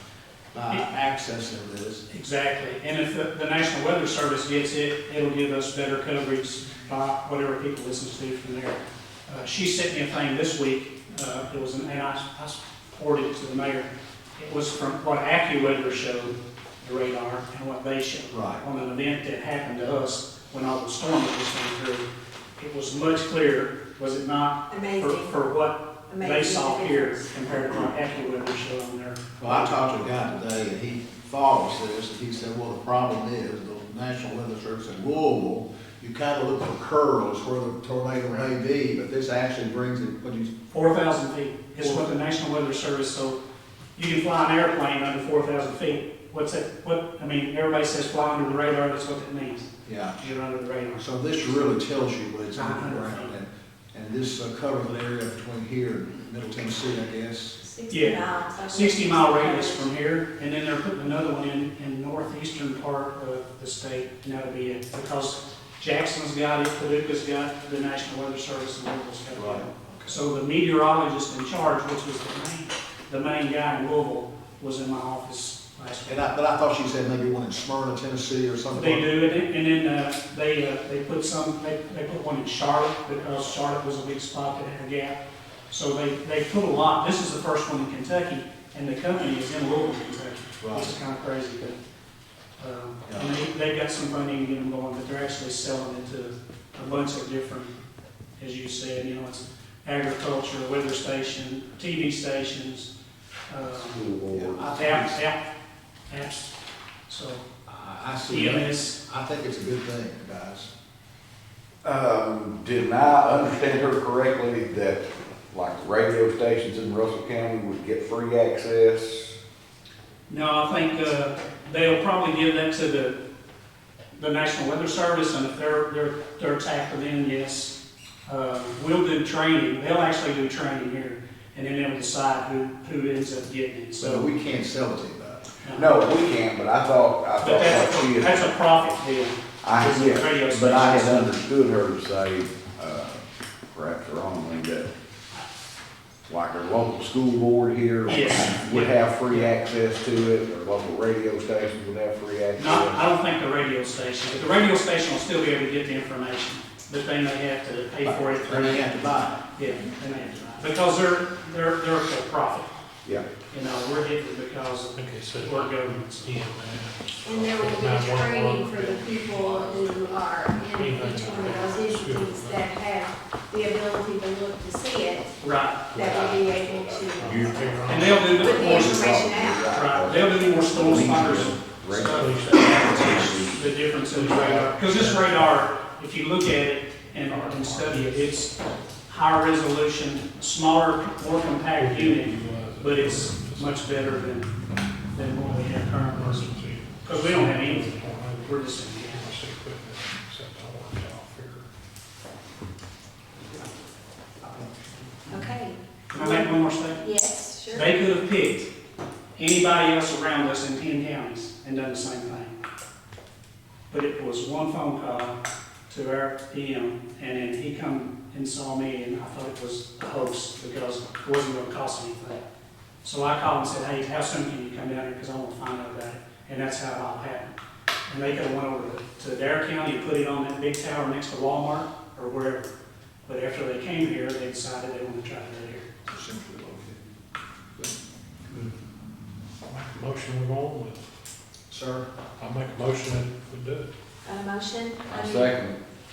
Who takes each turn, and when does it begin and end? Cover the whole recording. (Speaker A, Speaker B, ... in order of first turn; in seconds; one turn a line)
Speaker A: 0.5-2.0
Speaker B: 2.1-22.1
Speaker A: 18.3-18.6
Speaker B: 22.6-29.7
Speaker C: 24.7-25.4
Speaker C: 26.1-27.3
Speaker A: 29.4-40.5
Speaker B: 40.7-43.4
Speaker A: 41.8-42.1
Speaker B: 44.0-51.1
Speaker A: 49.9-50.2
Speaker A: 51.0-57.6
Speaker B: 52.5-53.4
Speaker C: 57.6-59.9
Speaker B: 57.9-76.3
Speaker A: 69.3-70.2
Speaker A: 76.0-79.1
Speaker B: 78.7-85.2
Speaker B: 85.7-91.8
Speaker A: 90.6-91.0
Speaker B: 92.6-97.7
Speaker A: 93.0-93.3
Speaker B: 98.4-102.9
Speaker B: 103.5-104.0
Speaker D: 103.8-104.6
Speaker A: 104.3-105.2
Speaker B: 104.6-105.4
Speaker B: 106.1-106.5
Speaker B: 107.1-107.4
Speaker A: 107.7-110.7
Speaker B: 108.3-109.0
Speaker D: 111.8-119.4
Speaker B: 120.3-123.2
Speaker B: 124.2-127.7
Speaker B: 128.3-134.3
Speaker A: 134.0-135.5
Speaker B: 135.6-136.0
Speaker D: 135.7-138.5
Speaker B: 137.4-141.3
Speaker D: 139.6-144.9
Speaker D: 146.3-153.0
Speaker B: 148.1-149.5
Speaker B: 152.6-162.8
Speaker A: 158.0-159.4
Speaker B: 163.5-166.4
Speaker E: 164.9-172.7
Speaker C: 167.2-175.4
Speaker B: 175.4-175.9
Speaker C: 175.9-177.6
Speaker D: 176.0-176.6
Speaker E: 176.1-178.7
Speaker D: 177.2-183.8
Speaker B: 177.8-179.0
Speaker C: 178.4-181.3
Speaker B: 179.7-194.6
Speaker E: 181.2-185.8
Speaker E: 187.2-188.4
Speaker E: 191.8-194.6
Speaker B: 195.1-197.9
Speaker E: 195.2-201.7
Speaker B: 198.4-199.3
Speaker C: 205.3-207.9
Speaker B: 206.1-207.1
Speaker B: 207.7-208.7
Speaker B: 209.3-212.5
Speaker B: 213.9-215.3
Speaker B: 215.9-222.4
Speaker B: 223.0-227.5
Speaker B: 228.1-232.7
Speaker B: 233.2-235.9
Speaker A: 236.1-237.0
Speaker E: 239.7-241.0
Speaker A: 241.7-242.1
Speaker E: 242.4-243.9
Speaker C: 244.2-245.6
Speaker D: 245.1-245.8